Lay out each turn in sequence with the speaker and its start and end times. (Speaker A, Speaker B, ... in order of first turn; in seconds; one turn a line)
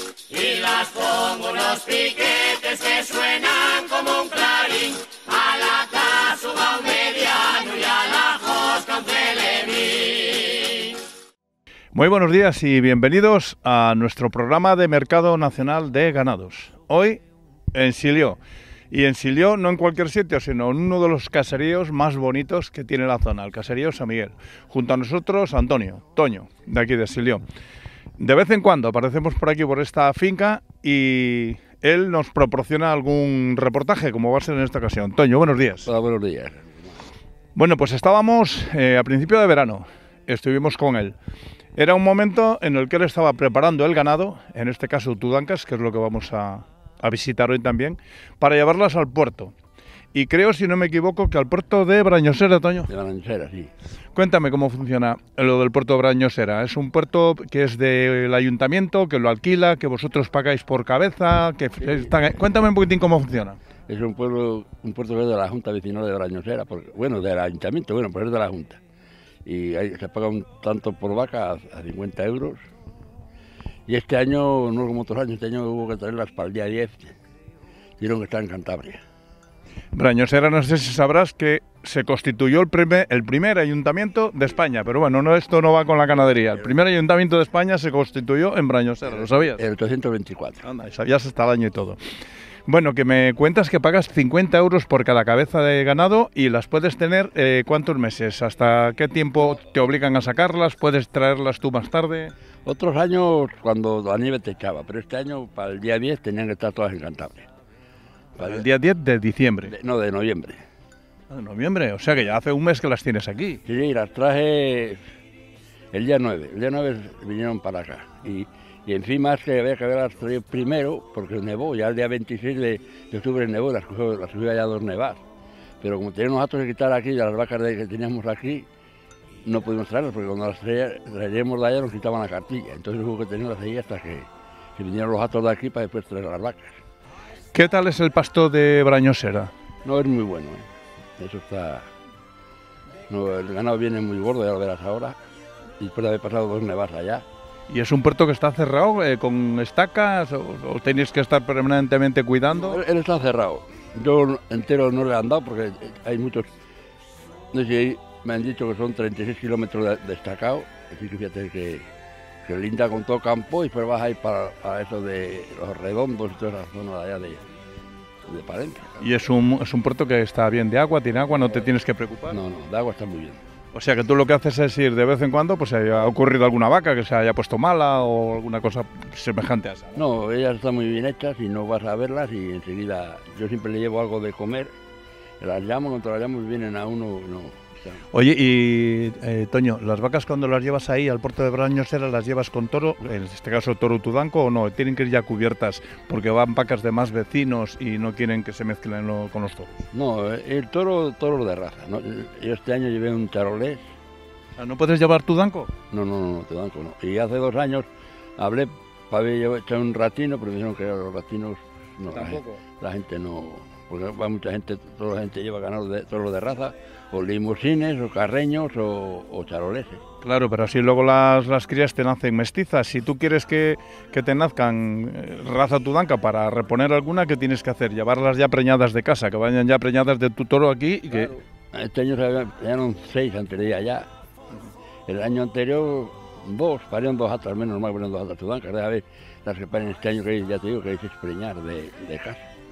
Speaker A: 0.3-11.0
Speaker B: 11.9-17.2
Speaker B: 17.7-18.4
Speaker B: 18.9-27.4
Speaker B: 28.2-35.9
Speaker C: 35.9-37.0
Speaker B: 37.5-41.2
Speaker B: 41.8-49.5
Speaker B: 50.1-52.9
Speaker C: 52.9-53.7
Speaker B: 54.1-63.6
Speaker C: 63.9-68.8
Speaker C: 69.5-72.6
Speaker C: 73.9-77.2
Speaker C: 78.0-79.0
Speaker B: 79.9-89.6
Speaker C: 89.5-90.6
Speaker B: 90.6-92.0
Speaker B: 92.7-102.3
Speaker C: 102.7-107.5
Speaker C: 108.4-108.7
Speaker B: 108.4-109.8
Speaker C: 109.7-110.6
Speaker B: 111.3-113.6
Speaker C: 113.7-115.0
Speaker C: 115.9-125.2
Speaker C: 125.8-128.7
Speaker C: 129.4-136.8
Speaker B: 137.5-139.5
Speaker C: 139.8-141.9
Speaker C: 143.1-145.2
Speaker C: 145.8-147.3
Speaker B: 147.7-152.8
Speaker C: 152.5-156.5
Speaker C: 157.5-161.9
Speaker C: 162.4-167.5
Speaker C: 168.3-169.1
Speaker B: 169.0-172.4
Speaker C: 172.3-173.4
Speaker B: 173.7-180.0
Speaker C: 179.9-184.7
Speaker C: 185.4-188.1
Speaker B: 188.1-199.7
Speaker C: 199.9-203.8
Speaker B: 204.6-205.7
Speaker C: 205.9-207.9
Speaker C: 208.4-220.0
Speaker B: 212.1-212.6
Speaker B: 220.2-231.3
Speaker C: 231.1-234.1
Speaker C: 235.1-242.4